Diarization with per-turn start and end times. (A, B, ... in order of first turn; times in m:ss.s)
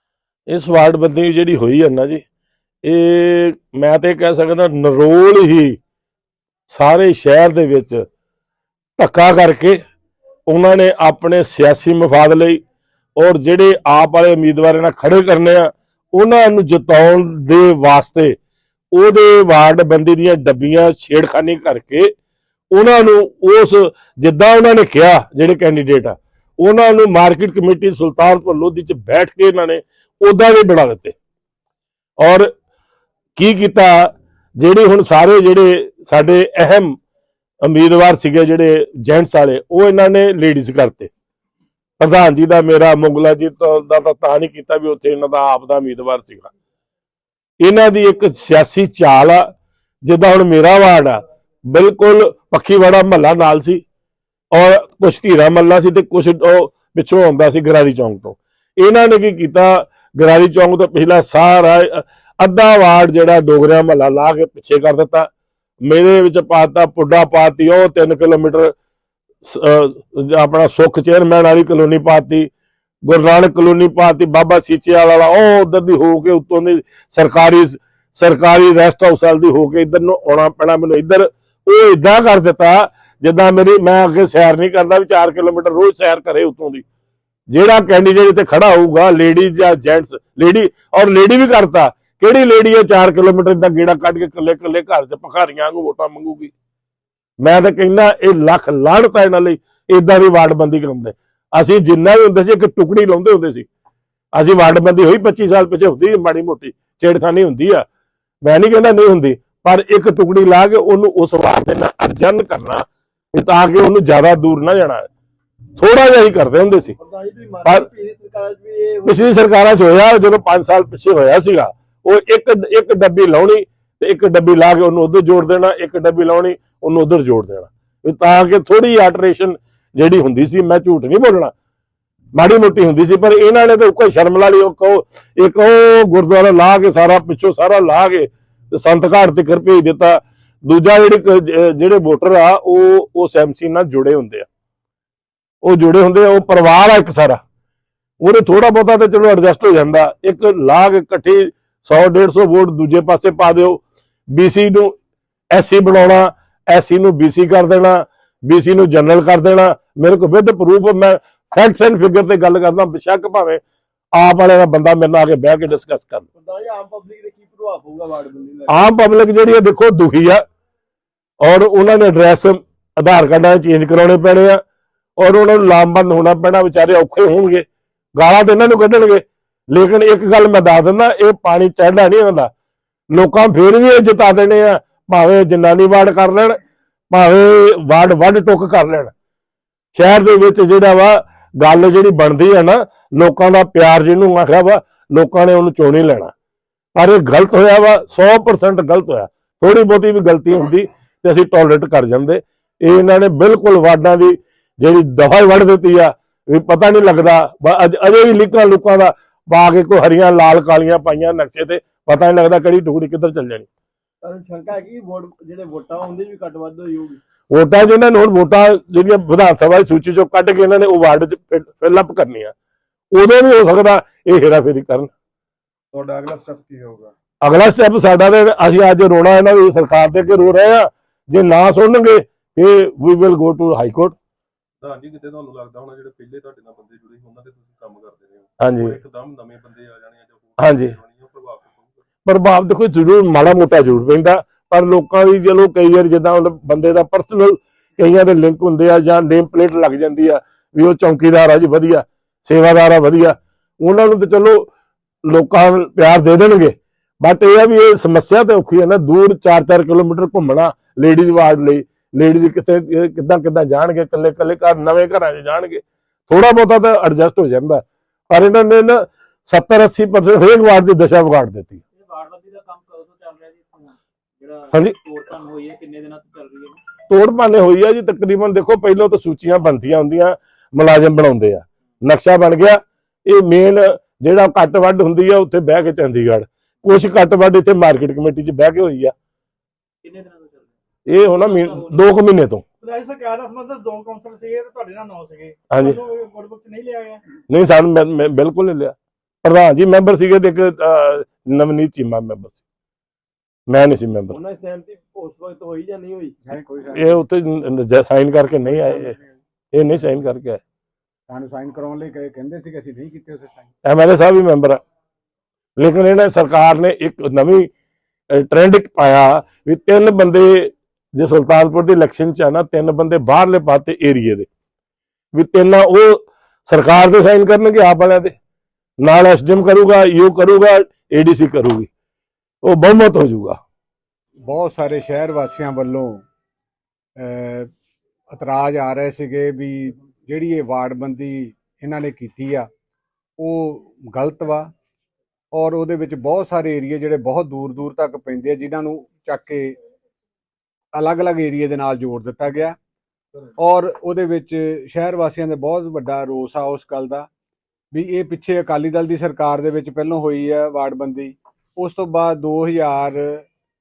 0:00.5-0:02.2 A
0:02.8-0:05.8 A
0:06.7-0:08.0 A
0:09.0-0:09.8 A
0:10.5-0:12.6 A
0:13.2-0:18.3 A
0:18.9-0:22.1 A
0:22.7-0:31.1 A
0:32.2-0:32.5 A
0:33.4-0:37.0 A
0:37.6-0:41.1 A
0:42.0-0:46.5 A
0:47.6-0:49.4 A
0:50.0-0:53.8 A
0:54.5-1:05.3 A
1:05.8-1:08.7 A
1:09.4-1:12.5 A
1:13.0-1:26.8 A
1:27.5-1:36.5 A
1:37.4-1:43.7 A
1:44.4-1:47.8 A
1:48.4-1:52.8 A
1:53.3-1:55.1 A
1:55.8-1:56.9 A
1:57.0-1:59.3 B
1:59.0-2:11.5 A
2:12.3-2:24.4 A
2:25.6-2:27.4 A
2:28.2-2:34.9 A
2:35.5-2:43.6 A
2:44.2-2:46.2 A
2:46.4-2:48.8 B
2:48.7-2:50.4 A
2:51.4-2:54.6 A
2:55.2-2:57.6 A
2:58.2-2:59.2 A
2:59.7-3:02.5 A
3:03.1-3:06.6 A
3:07.1-3:09.1 A
3:09.9-3:16.3 A
3:17.0-3:33.7 A
3:34.2-3:37.2 B
3:37.5-3:42.5 A
3:43.1-3:45.1 A
3:45.9-3:47.0 B
3:47.4-3:54.1 A
3:54.8-4:02.0 C
3:58.6-3:59.0 A
4:00.6-4:00.9 A
4:02.2-4:14.7 A
4:15.2-4:31.8 A
4:31.9-4:36.8 D
4:37.1-4:49.1 A
4:50.0-4:52.0 D
4:51.1-4:52.6 A
4:52.8-4:57.2 E
4:55.7-4:56.0 A
4:57.5-5:02.6 A
5:03.7-5:04.4 A
5:04.3-5:06.3 B
5:06.4-5:07.2 F
5:06.9-5:09.2 A
5:08.8-5:09.4 F
5:09.7-5:10.6 A
5:11.3-5:13.7 F
5:13.8-5:14.8 A
5:15.8-5:17.7 A
5:18.3-5:24.5 A
5:25.3-5:28.3 A
5:29.0-5:31.9 A
5:32.6-5:33.6 A
5:34.4-5:36.2 F
5:37.2-5:37.7 F
5:38.3-5:42.7 F
5:43.4-5:44.7 F
5:45.5-5:49.8 F
5:50.9-5:52.8 F
5:53.6-5:57.3 F
5:57.9-6:03.4 F